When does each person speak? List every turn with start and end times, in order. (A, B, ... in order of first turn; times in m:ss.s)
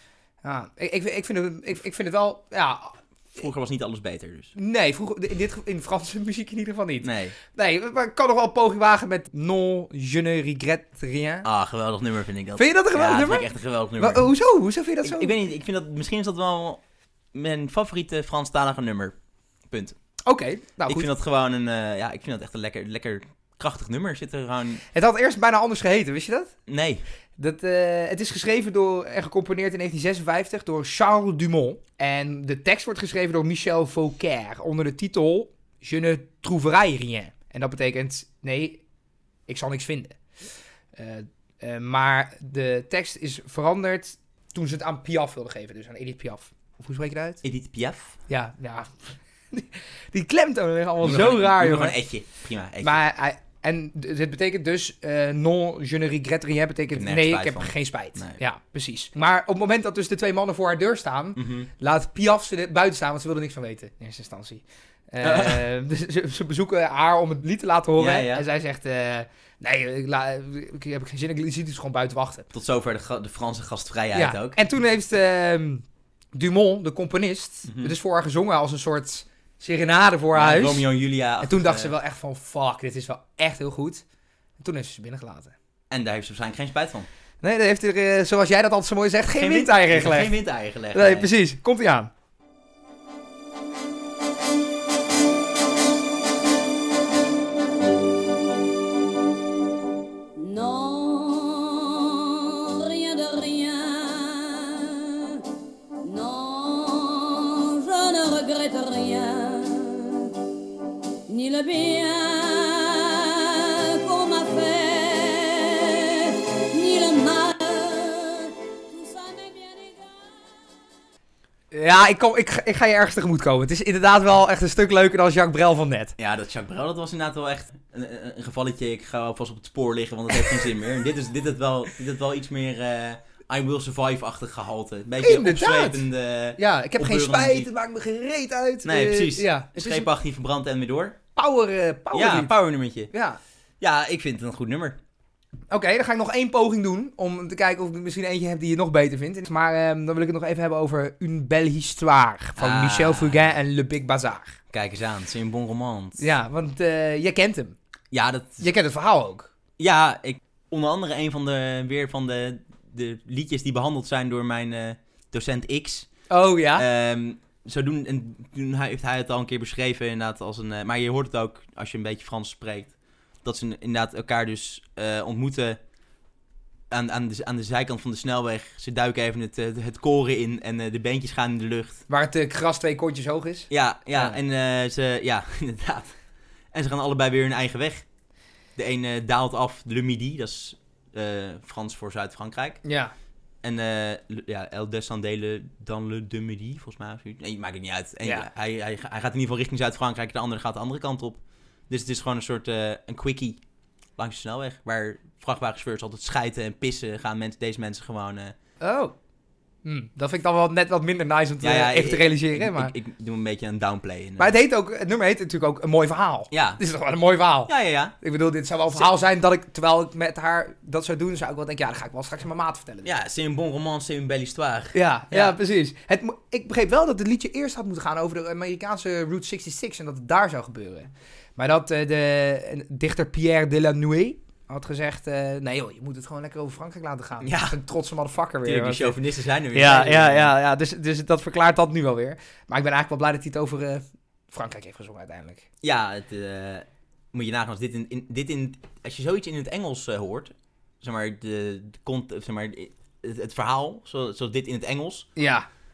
0:00.4-0:03.4 A
0:03.4-0:04.5 B
0:04.6-0:11.4 A
0:07.0-0:07.4 B
0:11.4-0:14.3 B
0:12.6-0:13.4 A
0:14.0-0:15.3 A
0:15.0-0:16.8 B
0:17.3-0:19.1 B
0:19.7-0:20.0 B
0:20.2-0:21.1 A
0:20.9-0:24.8 B
0:24.9-0:26.5 A
0:26.7-0:27.0 B
0:27.4-0:38.8 A
0:39.5-0:40.2 A
0:41.0-0:47.4 A
0:47.4-0:48.2 B
0:48.3-0:52.0 A
0:51.0-0:53.0 B
0:52.8-1:12.5 A
0:56.9-0:58.4 B
1:01.4-1:01.7 B
1:05.2-1:05.6 B
1:08.0-1:08.4 B
1:12.5-1:14.6 B
1:14.1-1:20.8 A
1:17.6-1:17.9 B
1:20.3-1:21.9 B
1:21.4-1:24.0 A
1:24.6-1:25.5 A
1:25.9-1:27.1 B
1:27.4-1:30.3 A
1:29.4-1:31.3 B
1:30.9-1:32.1 A
1:40.4-1:45.4 C
1:46.0-1:50.2 C
1:51.3-2:00.1 C
2:01.7-2:06.1 A
2:06.2-2:17.7 B
2:10.3-2:10.6 A
2:15.2-2:16.0 A
2:16.6-2:20.1 A
2:18.8-2:21.2 B
2:21.4-2:22.5 A
2:22.1-2:23.1 B
2:23.1-2:23.4 A
2:23.8-2:25.0 B
2:25.7-2:34.6 A
2:32.6-2:33.5 B
2:34.7-2:36.2 B
2:36.2-2:37.8 A
2:38.1-2:38.7 B
2:38.6-2:39.5 A
2:39.8-2:46.1 B
2:46.3-2:46.8 A
2:46.8-2:55.8 B
2:56.9-3:02.0 B
3:02.1-3:04.4 A
3:03.7-3:06.1 B
3:06.7-3:08.0 B
3:08.8-3:12.8 B
3:12.8-3:13.1 A
3:13.6-3:23.6 B
3:24.2-3:28.5 B
3:28.8-3:29.1 A
3:29.8-3:32.9 A
3:31.6-3:34.5 B
3:34.4-3:43.1 A
3:36.5-3:36.8 B
3:37.7-3:38.1 B
3:43.0-3:45.5 B
3:44.9-3:59.2 A
3:57.4-3:57.8 B
3:58.6-4:00.5 B
3:59.7-4:05.6 A
4:05.8-4:15.3 B
4:15.4-4:15.6 A